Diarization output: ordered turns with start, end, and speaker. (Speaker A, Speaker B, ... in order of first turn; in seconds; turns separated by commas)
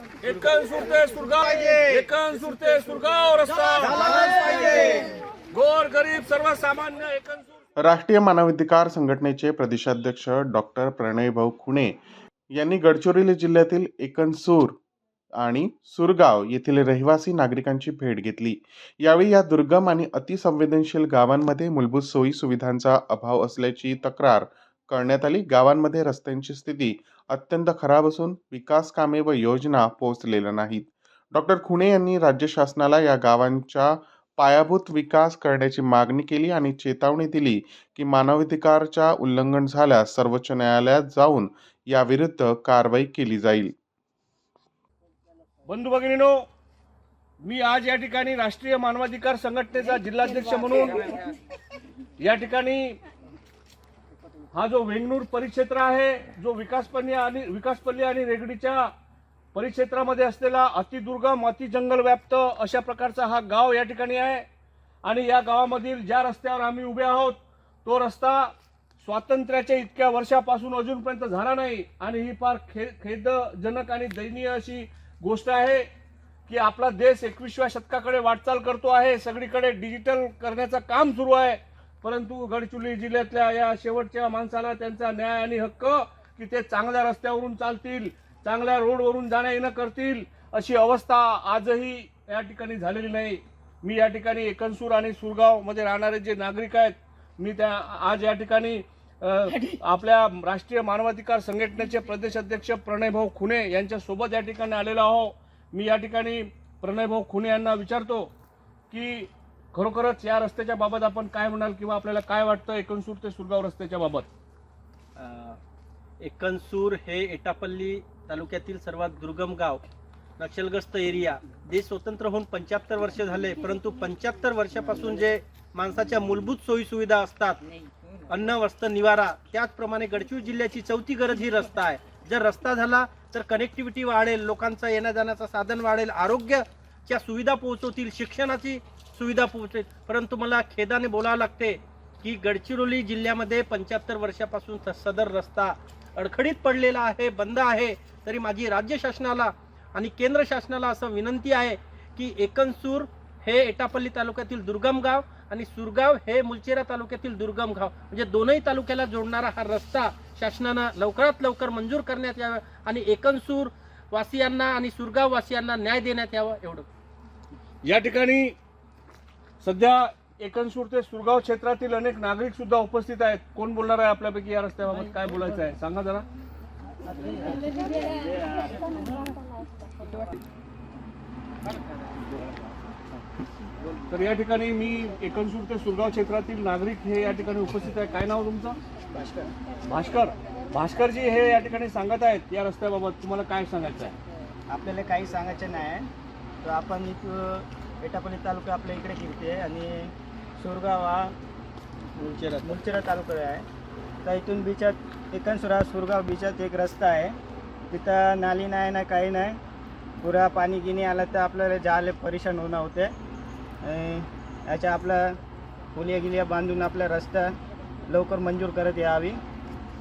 Speaker A: 0.2-7.6, Speaker B: 7.8-12.0, Speaker B: 12.5-14.8, Speaker B: 15.4-43.7, Speaker A: 45.6-46.5, Speaker A: 47.4-51.2, Speaker A: 52.2-53.0, Speaker A: 54.5-58.9, Speaker A: 59.5-64.5, Speaker A: 65.0-75.9, Speaker A: 76.5-108.3, Speaker A: 108.9-114.3, Speaker C: 115.2-115.6, Speaker C: 116.2-119.8, Speaker C: 120.4-127.6, Speaker C: 128.3-166.9, Speaker A: 167.8-168.6, Speaker A: 169.6-176.3, Speaker A: 184.1-188.8, Speaker D: 189.1-189.5, Speaker A: 189.8-194.2, Speaker D: 194.7-196.1, Speaker D: 196.6-201.3, Speaker C: 202.2-202.7, Speaker D: 202.6-203.7, Speaker D: 204.2-207.4, Speaker D: 207.9-209.6, Speaker D: 210.2-213.1, Speaker D: 213.8-215.4, Speaker D: 215.9-217.6, Speaker D: 218.1-219.4